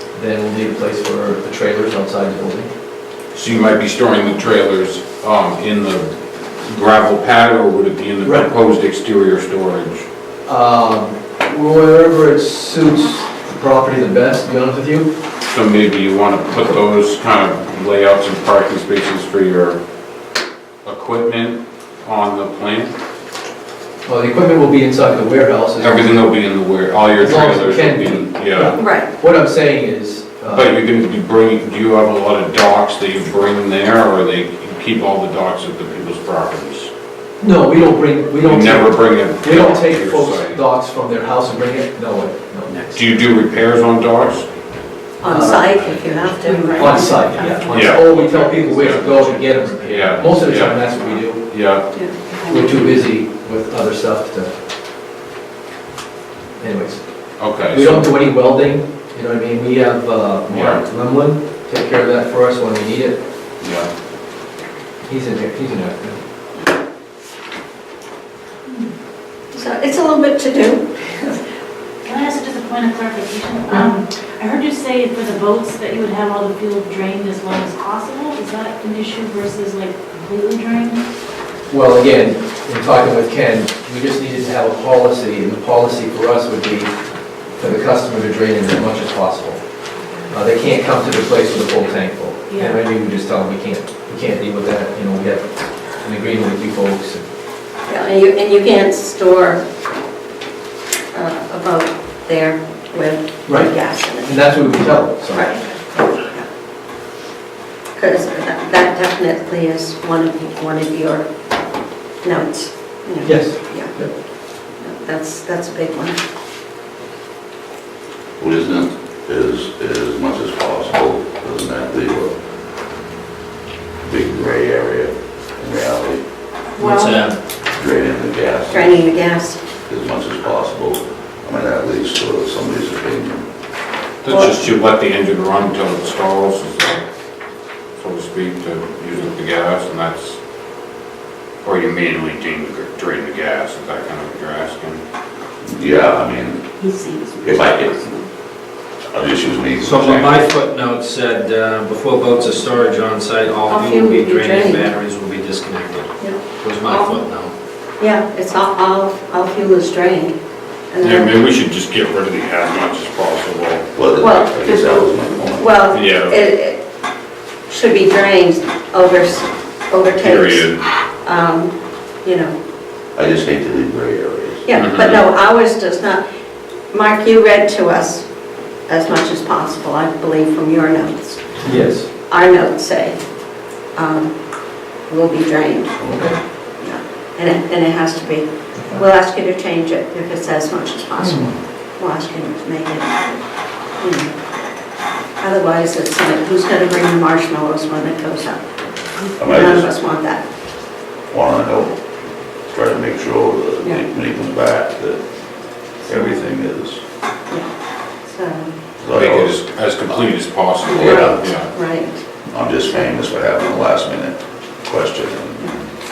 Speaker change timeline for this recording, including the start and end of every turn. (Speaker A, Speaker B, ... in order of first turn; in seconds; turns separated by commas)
Speaker A: 0.1-2.7, Speaker B: 3.3-10.1, Speaker A: 8.2-8.5, Speaker A: 10.5-15.1, Speaker B: 15.4-19.8, Speaker B: 20.9-22.9, Speaker A: 24.1-26.3, Speaker B: 25.8-28.8, Speaker A: 27.2-30.7, Speaker C: 28.8-29.1, Speaker B: 30.5-36.9, Speaker A: 37.4-42.7, Speaker B: 38.4-40.6, Speaker D: 42.7-43.3, Speaker B: 42.9-44.5, Speaker C: 45.2-47.2, Speaker A: 45.2-45.7, Speaker D: 46.0-49.9, Speaker A: 46.7-51.5, Speaker E: 46.8-47.1, Speaker B: 47.6-49.2, Speaker B: 49.8-51.9, Speaker C: 51.9-52.7, Speaker A: 52.5-54.5, Speaker A: 56.6-57.0, Speaker B: 57.4-58.1, Speaker A: 57.7-63.2, Speaker B: 60.5-60.8, Speaker B: 63.6-63.9, Speaker A: 65.0-66.2, Speaker C: 69.5-71.4, Speaker E: 72.0-81.0, Speaker A: 81.7-86.9, Speaker A: 87.6-89.6, Speaker A: 90.3-97.2, Speaker E: 92.5-92.8, Speaker C: 97.9-99.6, Speaker C: 101.1-106.5, Speaker A: 103.5-105.5, Speaker C: 108.0-111.3, Speaker C: 112.2-114.0, Speaker A: 113.2-114.1, Speaker C: 114.8-116.2, Speaker F: 118.4-122.3, Speaker F: 124.0-126.2, Speaker D: 126.8-127.4, Speaker C: 126.8-127.2, Speaker F: 127.7-129.0, Speaker C: 128.7-129.6, Speaker F: 129.9-133.5, Speaker B: 134.2-137.0, Speaker C: 134.3-134.6, Speaker B: 138.0-140.4, Speaker B: 141.6-145.0, Speaker F: 145.7-146.6, Speaker C: 146.8-148.3, Speaker F: 147.4-148.0, Speaker F: 149.1-150.4, Speaker D: 149.8-157.5, Speaker C: 153.7-154.9, Speaker C: 156.2-157.2, Speaker C: 158.0-160.3, Speaker C: 160.9-161.3, Speaker B: 161.0-163.9, Speaker F: 164.0-165.7, Speaker C: 164.2-166.8, Speaker B: 165.9-166.4, Speaker C: 167.7-170.7, Speaker B: 170.2-170.8, Speaker C: 171.2-171.7, Speaker C: 172.2-172.6, Speaker F: 173.2-174.7, Speaker C: 174.7-176.2, Speaker B: 174.7-175.2, Speaker C: 176.9-178.2, Speaker C: 178.9-181.4, Speaker A: 181.6-182.1, Speaker C: 182.3-183.2, Speaker C: 183.9-184.3, Speaker C: 185.1-186.0, Speaker A: 186.1-186.4, Speaker C: 186.8-193.4, Speaker A: 191.2-191.5, Speaker C: 194.0-194.3, Speaker C: 195.4-198.7, Speaker F: 199.4-199.9, Speaker C: 199.5-200.4, Speaker F: 201.3-201.9, Speaker F: 202.7-205.2, Speaker F: 206.1-207.0, Speaker C: 208.3-208.7, Speaker F: 209.0-209.6, Speaker B: 209.1-211.7, Speaker C: 210.8-212.2, Speaker F: 210.9-211.5, Speaker F: 212.5-215.7